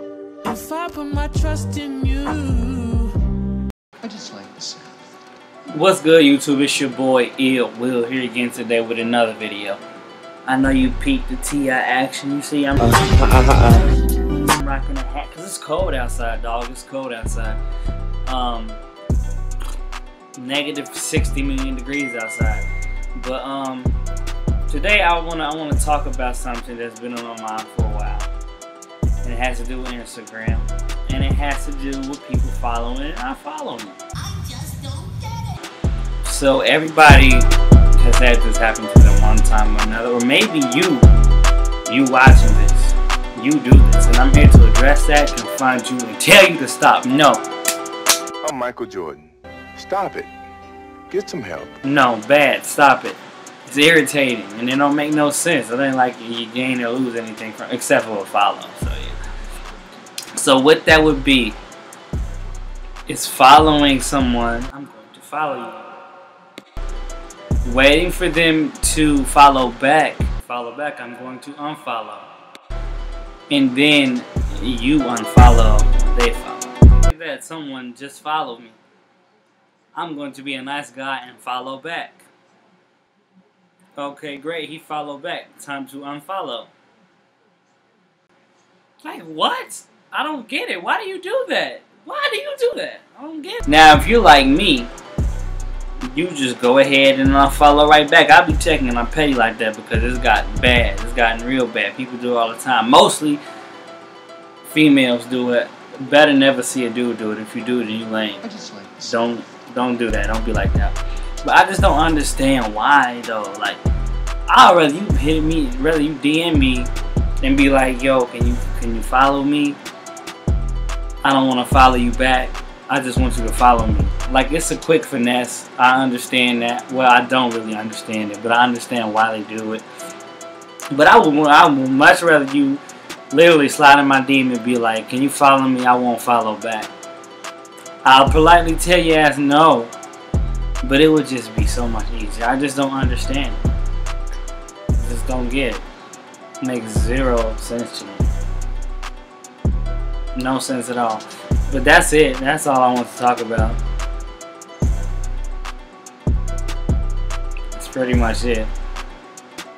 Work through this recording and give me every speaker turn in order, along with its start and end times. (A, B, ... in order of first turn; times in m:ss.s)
0:00.4-0:03.1 A
0:04.0-0:04.9 B
0:05.7-0:09.8 C
0:10.5-0:13.5 C
0:13.0-0:13.8 B
0:14.3-0:17.6 C
0:18.3-0:18.8 C
0:20.4-0:24.0 C
0:24.7-0:28.3 C
0:29.2-0:34.0 C
0:34.3-0:35.5 B
0:36.2-0:41.1 C
0:41.9-0:47.4 C
0:48.4-0:50.3 D
0:51.1-0:51.8 D
0:51.8-0:59.2 C
1:00.3-1:01.6 C
1:03.1-1:05.9 C
1:07.6-1:12.3 C
1:13.5-1:18.8 C
1:19.9-1:22.3 C
1:24.0-1:26.7 C
1:29.0-1:34.9 C
1:36.1-1:43.4 C
1:44.6-1:48.5 C
1:48.4-1:49.1 B
1:49.0-1:53.8 C
1:54.5-1:56.9 C
1:57.4-1:59.8 C
2:01.2-2:09.8 C
2:10.9-2:16.9 C
2:18.0-2:19.9 C
2:20.8-2:23.6 C
2:25.0-2:25.8 C
2:26.6-2:28.2 C
2:30.3-2:33.8 C
2:37.7-2:38.7 C